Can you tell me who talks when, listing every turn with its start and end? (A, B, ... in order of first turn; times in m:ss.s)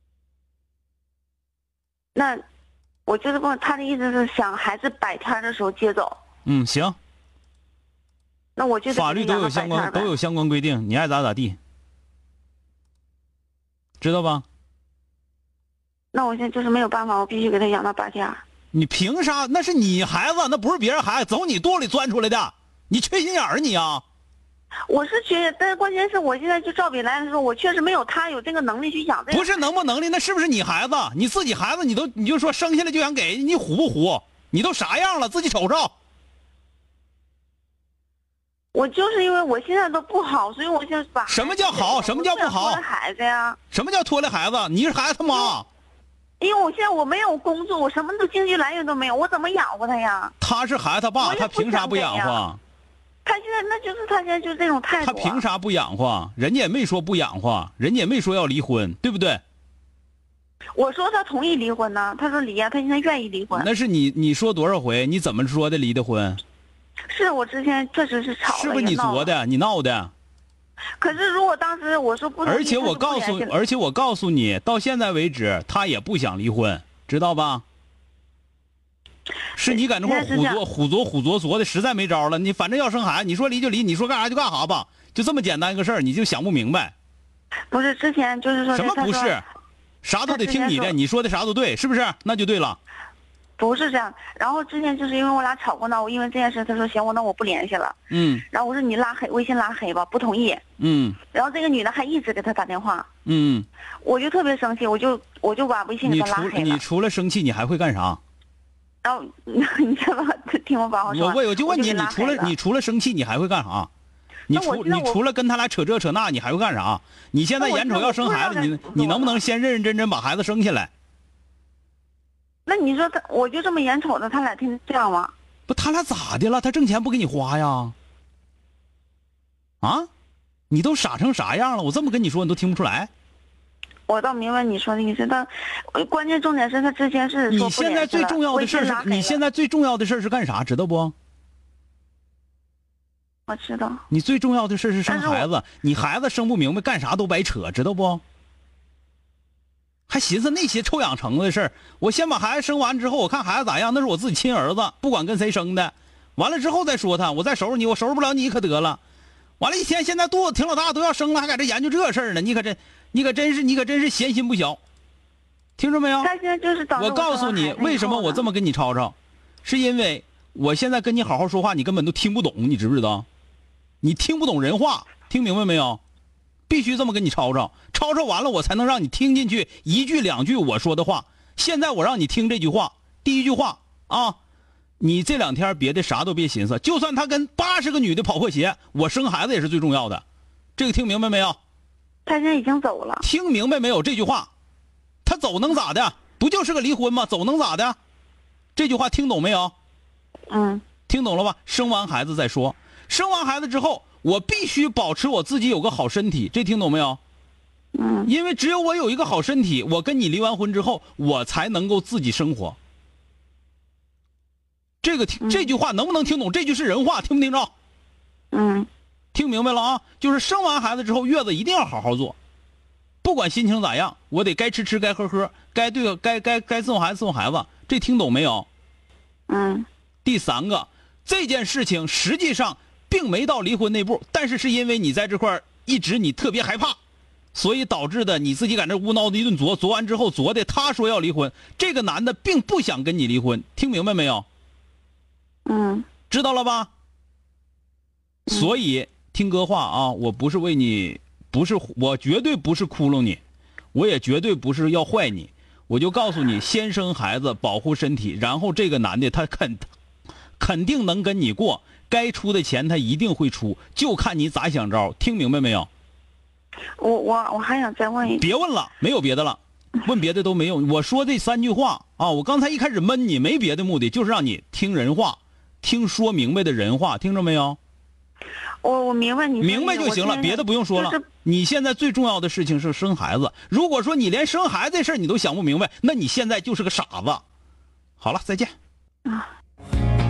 0:02.2-0:02.4 A
0:03.1-0:06.2 A
0:06.5-0:07.0 B
0:08.6-0:10.2 A
0:08.9-0:11.6 B
0:14.0-0:14.4 B
0:16.1-0:18.4 A
0:18.7-0:24.0 B
0:24.9-0:29.6 A
0:29.3-0:35.9 B
0:38.7-0:43.6 A
0:41.3-0:42.8 B
0:43.7-0:45.7 B
0:46.4-0:50.3 A
0:50.4-0:52.6 B
0:51.2-0:52.4 A
0:53.2-0:55.4 A
0:55.0-0:59.4 B
1:00.8-1:03.7 A
1:03.5-1:06.4 B
1:07.1-1:09.3 A
1:08.5-1:10.1 B
1:11.0-1:13.5 A
1:12.4-1:17.6 B
1:19.6-1:26.9 B
1:19.7-1:20.6 A
1:27.7-1:29.4 A
1:28.7-1:29.5 B
1:30.0-1:32.8 B
1:30.3-1:31.0 A
1:33.6-1:40.6 A
1:38.1-1:38.4 B
1:40.8-1:41.2 B
1:41.3-1:43.1 A
1:43.3-1:43.7 B
1:44.0-1:46.8 A
1:46.0-1:48.2 B
1:49.0-1:52.6 A
1:51.1-1:53.9 B
1:54.5-2:00.9 B
1:54.5-1:55.2 A
1:57.6-1:59.4 A
2:02.7-2:05.3 A
2:05.7-2:07.9 B
2:09.8-2:10.1 B
2:10.7-2:13.1 B
2:14.1-2:19.4 A
2:17.5-2:21.1 B
2:23.5-2:24.0 A
2:24.1-2:28.2 B
2:25.1-2:25.5 A
2:30.1-2:39.0 B
2:39.6-2:44.8 B
2:45.8-2:46.3 B
2:46.2-2:48.5 A
2:47.0-2:53.3 B
2:54.0-2:56.0 B
2:56.7-3:04.4 B
3:05.0-3:10.2 B
3:10.8-3:11.6 B
3:12.2-3:13.3 A
3:13.2-3:14.5 B
3:15.2-3:18.0 B
3:18.8-3:19.7 B
3:20.5-3:20.8 A
3:21.1-3:27.2 B
3:28.0-3:28.3 A
3:28.3-3:32.8 B
3:35.0-3:37.7 B
3:35.4-3:35.7 A
3:38.5-3:38.9 A
3:39.3-3:42.4 B
3:43.2-3:48.7 B
3:49.5-3:49.9 A
3:50.2-3:57.0 B
3:57.6-4:04.5 B
4:05.7-4:06.1 A
4:06.3-4:06.9 B
4:08.5-4:13.4 B
4:13.9-4:19.9 B
4:20.6-4:25.9 B
4:27.0-4:28.5 A
4:28.3-4:37.8 B
4:38.8-4:41.3 A
4:39.6-4:47.4 B
4:48.2-4:48.7 B